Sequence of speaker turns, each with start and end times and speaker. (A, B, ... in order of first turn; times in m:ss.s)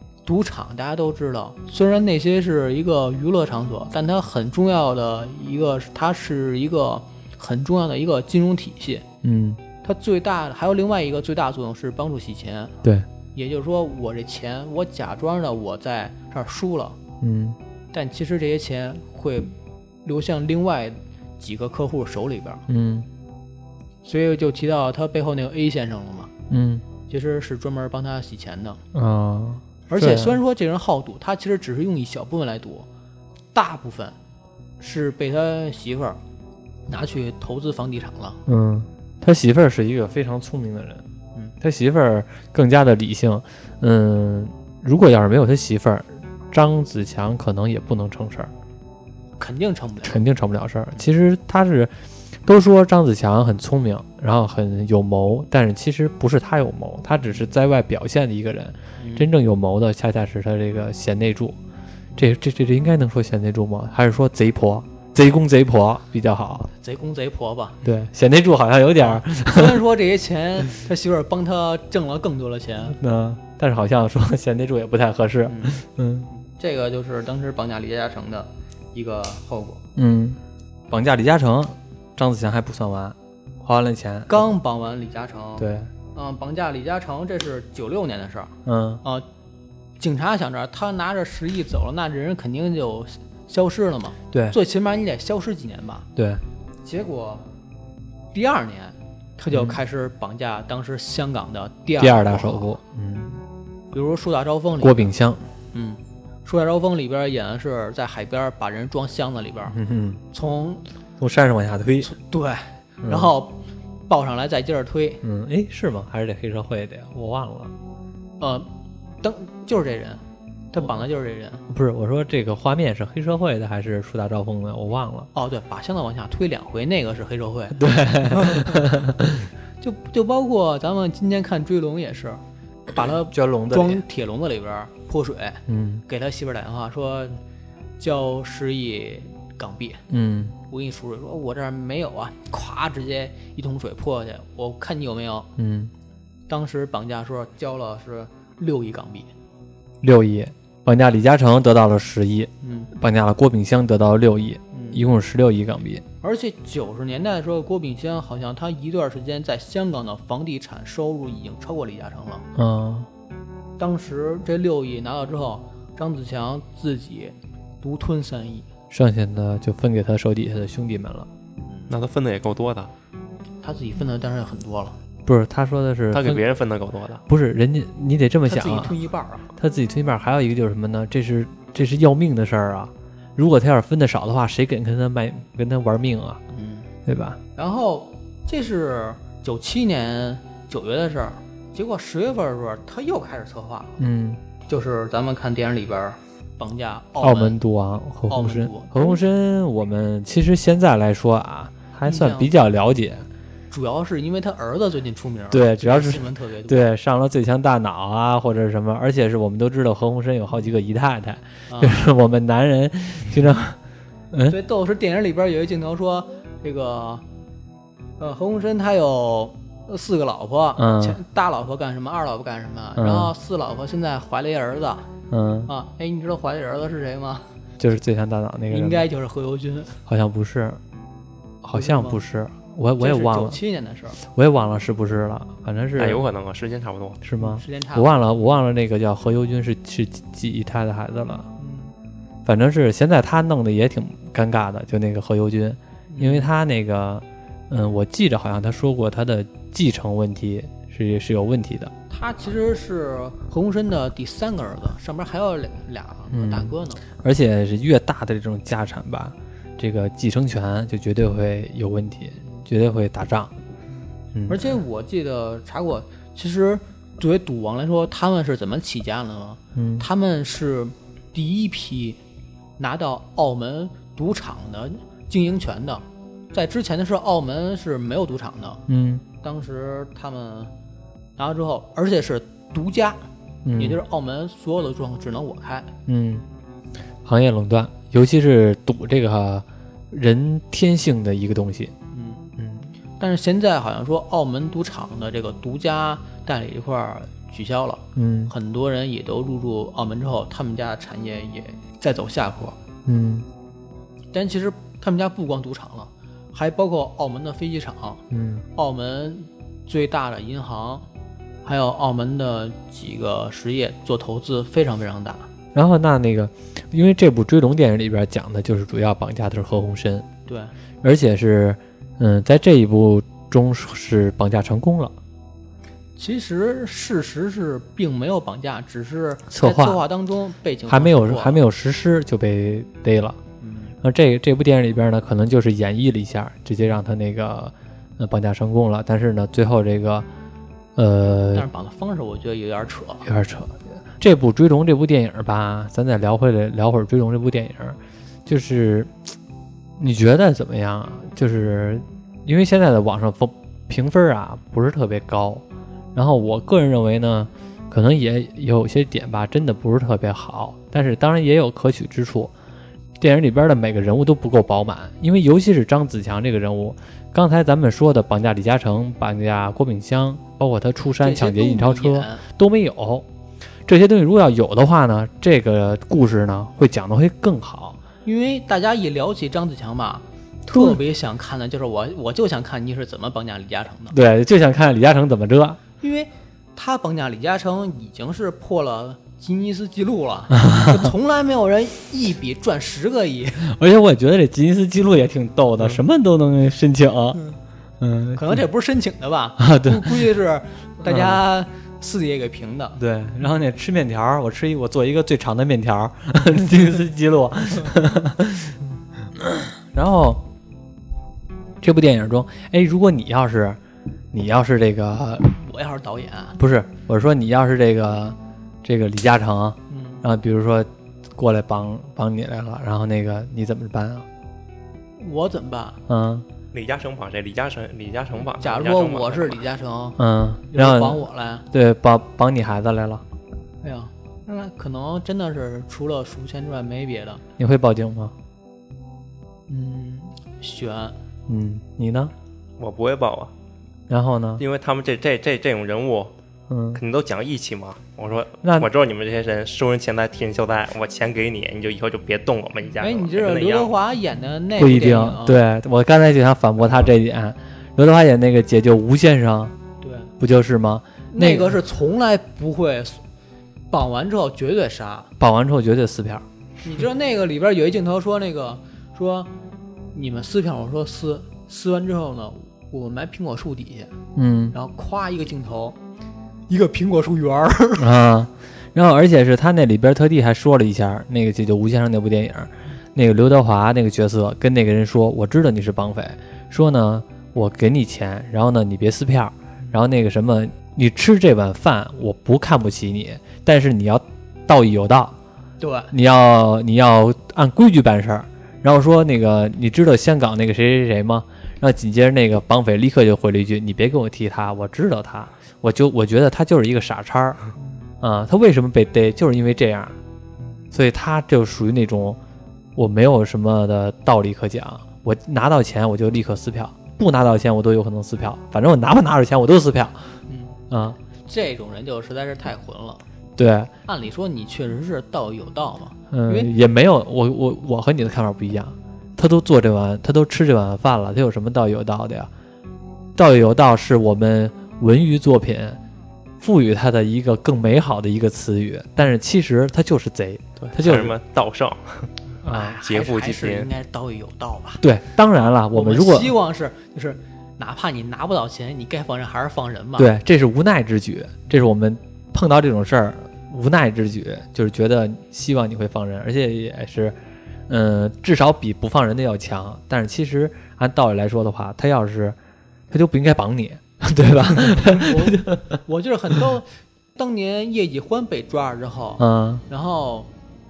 0:00.3-0:09.0 A
0:09.2-0:09.6 B
0:09.8-0:12.8 A
0:13.3-0:17.0 A
0:17.2-0:17.6 B
0:17.9-0:19.5 A
0:20.0-0:22.6 A
0:22.7-0:23.1 B
0:24.0-0:26.3 A
0:26.5-0:26.8 B
0:27.1-0:28.8 A
0:28.9-0:30.4 B
0:29.9-0:32.9 A
0:33.5-0:34.2 A
0:34.8-0:36.2 A
0:36.9-0:38.4 A
0:38.5-0:41.0 B
0:41.6-0:48.5 B
0:49.4-0:50.2 A
0:50.0-0:51.9 B
0:52.4-1:01.6 B
0:59.0-0:59.3 A
1:02.2-1:06.7 B
1:06.7-1:07.8 A
1:07.8-1:09.8 B
1:09.0-1:13.0 A
1:12.9-1:16.3 B
1:15.5-1:19.8 A
1:20.0-1:20.4 B
1:20.9-1:24.5 B
1:24.3-1:29.3 A
1:25.6-1:25.9 B
1:28.7-1:29.0 B
1:30.0-1:36.1 A
1:34.3-1:34.6 B
1:36.2-1:36.4 B
1:36.8-1:37.5 A
1:38.3-1:42.8 A
1:39.5-1:39.8 B
1:42.0-1:43.4 B
1:43.9-1:45.1 A
1:44.8-1:45.5 B
1:45.7-1:49.8 A
1:49.7-1:50.2 B
1:50.3-1:50.8 A
1:51.2-1:52.1 B
1:52.0-1:55.2 A
1:53.0-1:53.3 B
1:55.2-1:57.7 B
1:58.4-1:58.7 A
1:59.2-2:01.6 A
2:01.7-2:05.3 B
2:05.3-2:08.9 A
2:07.8-2:09.5 B
2:09.8-2:17.4 A
2:13.3-2:14.0 B
2:15.7-2:16.0 B
2:18.0-2:20.0 A
2:20.1-2:20.6 B
2:20.7-2:25.5 A
2:25.6-2:25.9 B
2:26.5-2:29.3 A
2:30.0-2:36.0 B
2:32.6-2:32.9 A
2:34.7-2:35.1 A
2:36.2-2:42.5 A
2:42.6-2:43.1 B
2:43.8-2:48.7 A
2:48.9-2:51.3 B
2:51.6-2:51.9 A
2:51.9-2:52.9 C
2:53.6-2:55.0 A
2:55.2-2:56.4 B
2:56.1-2:57.2 C
2:57.3-2:59.0 B
2:58.5-2:59.5 A
2:59.6-3:06.4 B
3:06.5-3:06.9 A
3:07.1-3:07.4 B
3:07.6-3:14.0 A
3:14.0-3:14.4 B
3:14.7-3:17.6 A
3:17.2-3:23.3 B
3:18.3-3:19.2 A
3:22.0-3:22.5 A
3:23.7-3:26.9 A
3:25.5-3:33.8 B
3:31.7-3:32.1 A
3:34.3-3:34.6 B
3:34.5-3:37.2 A
3:38.2-3:45.1 A
3:40.8-3:41.2 B
3:43.0-3:43.3 B
3:45.3-3:45.7 B
3:45.7-3:47.5 A
3:47.8-3:49.1 B
3:48.7-3:50.0 A
3:50.1-3:50.8 B
3:51.6-3:53.6 B
3:51.7-3:52.2 A
3:53.0-3:54.2 A
3:54.2-3:56.2 B
3:56.0-3:57.2 C
3:57.2-4:01.5 B
3:57.4-3:58.1 A
4:01.6-4:01.9 A
4:02.4-4:11.9 B
4:06.1-4:06.5 A
4:12.1-4:17.0 A
4:16.3-4:23.5 B
4:24.3-4:24.7 B
4:24.5-4:32.2 A
4:29.8-4:30.1 B
4:32.8-4:38.8 A
4:38.9-4:39.2 B
4:39.4-4:40.7 A
4:41.4-4:43.2 A
4:43.6-4:44.0 B
4:43.8-4:45.9 A
4:46.1-4:46.4 B
4:47.2-4:51.9 B
4:52.1-4:52.5 A
4:52.6-4:52.8 B
4:53.2-5:02.8 A
4:58.2-4:58.5 B
5:03.1-5:03.5 B
5:04.3-5:08.2 A
5:08.3-5:08.6 B
5:08.8-5:11.0 A
5:11.6-5:15.5 A
5:15.7-5:20.3 B
5:20.5-5:20.7 A
5:21.0-5:25.1 B
5:26.2-5:31.6 A
5:29.5-5:30.0 B
5:30.9-5:33.4 B
5:33.6-5:34.0 A
5:34.0-5:40.3 B
5:41.0-5:41.7 B
5:41.5-5:43.3 A
5:43.3-5:49.2 B
5:50.0-5:55.6 B
5:56.2-6:02.5 B
6:03.2-6:13.3 B
6:11.2-6:12.4 A
6:13.9-6:18.0 B
6:18.2-6:24.2 A
6:20.7-6:21.0 B
6:24.1-6:25.8 B
6:26.0-6:33.7 A
6:30.6-6:31.1 B
6:33.6-6:37.4 B
6:38.0-6:38.6 B
6:38.4-6:43.0 A
6:39.6-6:40.3 B
6:41.0-6:41.4 B
6:43.0-6:48.8 B
6:49.4-6:50.4 B
6:51.8-6:53.8 B
6:54.3-6:55.6 B
6:55.6-6:56.6 A
6:56.6-7:04.3 B
6:59.9-7:00.2 A
7:05.2-7:06.0 A
7:06.1-7:06.5 B
7:06.7-7:09.6 C
7:08.6-7:10.2 A
7:10.2-7:13.2 B
7:10.7-7:11.6 A
7:13.8-7:17.4 A
7:17.6-7:18.3 B
7:19.7-7:21.2 A
7:21.5-7:22.3 B
7:22.8-7:23.5 C
7:24.1-7:24.6 B
7:24.6-7:26.3 C
7:26.7-7:27.0 B
7:27.0-7:33.9 C
7:28.6-7:28.9 B
7:33.0-7:35.6 A
7:34.8-7:39.8 B
7:40.0-7:40.3 A
7:40.4-7:41.8 B
7:41.3-7:43.2 A
7:43.9-7:45.3 A
7:45.4-7:46.4 B
7:46.8-7:49.5 A
7:50.1-7:54.1 A
7:54.4-7:54.8 B
7:54.7-7:56.0 A
7:56.7-7:58.1 A
7:58.0-8:15.4 B
8:15.8-8:16.1 A
8:16.1-8:27.6 B
8:28.2-8:30.2 B
8:30.9-8:32.4 B
8:33.0-8:40.2 B
8:40.5-8:40.8 A
8:40.9-8:41.2 B
8:41.4-8:43.2 A
8:43.6-8:43.9 B
8:44.1-8:46.7 A
8:46.3-8:52.5 B
8:53.4-8:56.0 B
8:56.6-9:01.4 B
9:00.8-9:02.3 C
9:02.6-9:05.0 A
9:02.7-9:03.0 B
9:03.0-9:03.9 C
9:05.0-9:06.5 B
9:05.9-9:10.3 A
9:10.2-9:17.4 B
9:17.9-9:22.6 B
9:23.1-9:26.0 B
9:25.0-9:30.5 A
9:29.4-9:29.8 B